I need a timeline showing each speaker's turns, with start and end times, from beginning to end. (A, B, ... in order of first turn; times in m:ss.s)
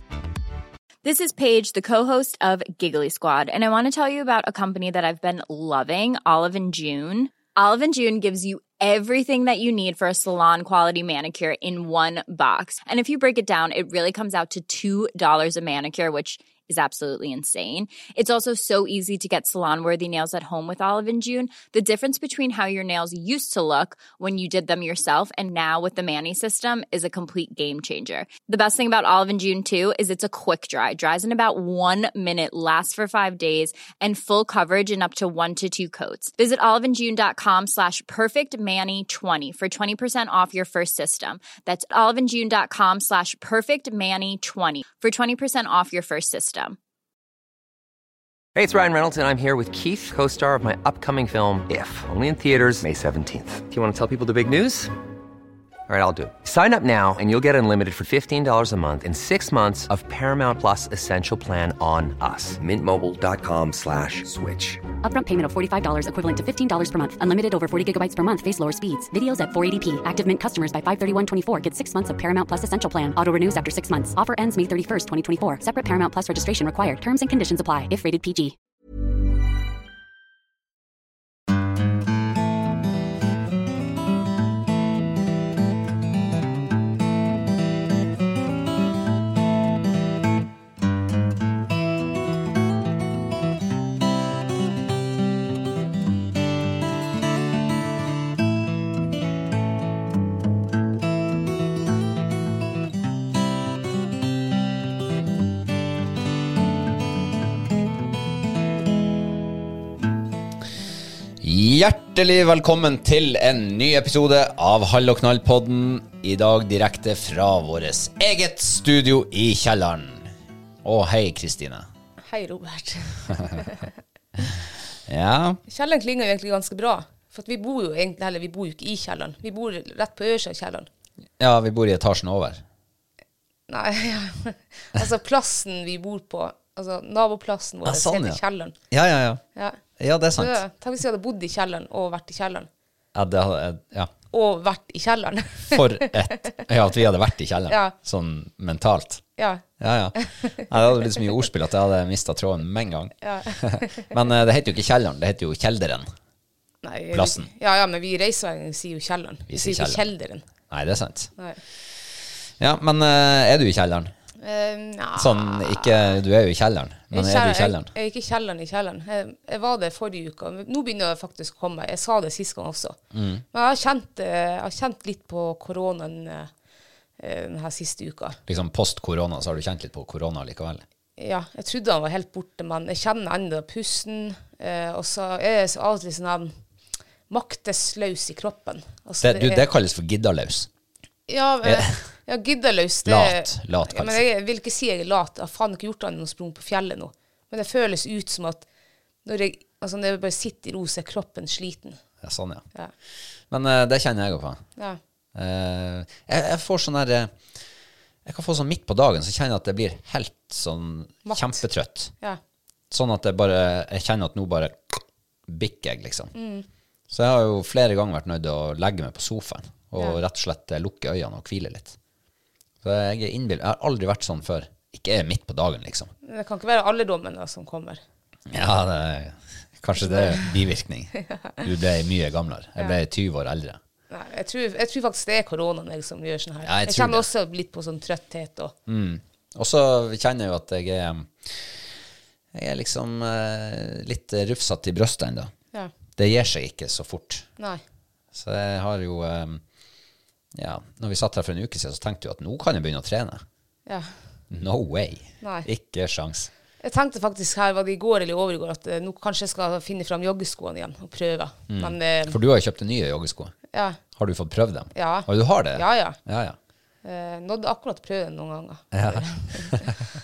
0:01.0-0:46.8 A
0:48.5-0:54.9 B
0:55.9-1:04.8 B
1:05.0-1:18.5 C
1:51.4-2:00.3 D
2:00.8-2:01.9 D
2:02.2-2:03.9 E
2:05.1-2:05.6 D
2:05.7-2:10.9 E
2:11.4-2:12.6 D
2:13.7-2:18.7 E
2:17.8-2:19.4 D
2:19.5-2:19.8 E
2:20.0-2:20.6 D
2:20.4-2:22.7 E
2:23.1-2:24.1 D
2:24.3-2:26.6 E
2:25.7-2:29.2 D
2:27.7-2:27.9 E
2:29.4-2:29.6 E
2:29.8-2:36.1 D
2:30.2-2:30.6 E
2:33.2-2:34.1 E
2:36.8-2:40.5 E
2:37.1-2:37.5 D
2:39.5-2:40.1 D
2:40.7-2:41.3 D
2:42.6-2:44.1 D
2:44.4-2:46.2 E
2:45.2-2:47.9 D
2:47.1-2:53.0 E
2:53.1-2:53.4 D
2:53.5-2:56.5 E
2:57.2-2:58.4 E
2:58.5-3:00.8 D
3:01.2-3:06.5 E
3:07.3-3:09.6 E
3:09.2-3:10.7 D
3:11.3-3:18.6 E
3:11.6-3:12.0 D
3:13.0-3:14.2 D
3:19.2-3:22.0 E
3:22.2-3:22.6 D
3:23.5-3:24.6 D
3:25.3-3:27.3 D
3:28.2-3:32.1 D
3:31.2-3:31.6 E
3:32.9-3:36.3 D
3:36.3-3:36.6 E
3:37.1-3:42.0 D
3:42.8-3:46.1 D
3:46.2-3:48.0 E
3:48.5-3:53.8 D
3:50.0-3:50.5 E
3:54.1-3:58.7 E
3:56.6-3:57.3 D
3:58.9-4:01.9 D
4:02.5-4:05.5 D
4:06.2-4:07.5 D
4:08.3-4:09.6 D
4:10.5-4:13.4 D
4:13.9-4:14.1 E
4:14.5-4:16.5 D
4:15.4-4:15.7 E
4:16.8-4:22.4 E
4:21.7-4:23.5 D
4:23.7-4:24.0 E
4:24.2-4:26.6 D
4:24.9-4:26.2 E
4:27.0-4:29.9 E
4:28.9-4:29.9 D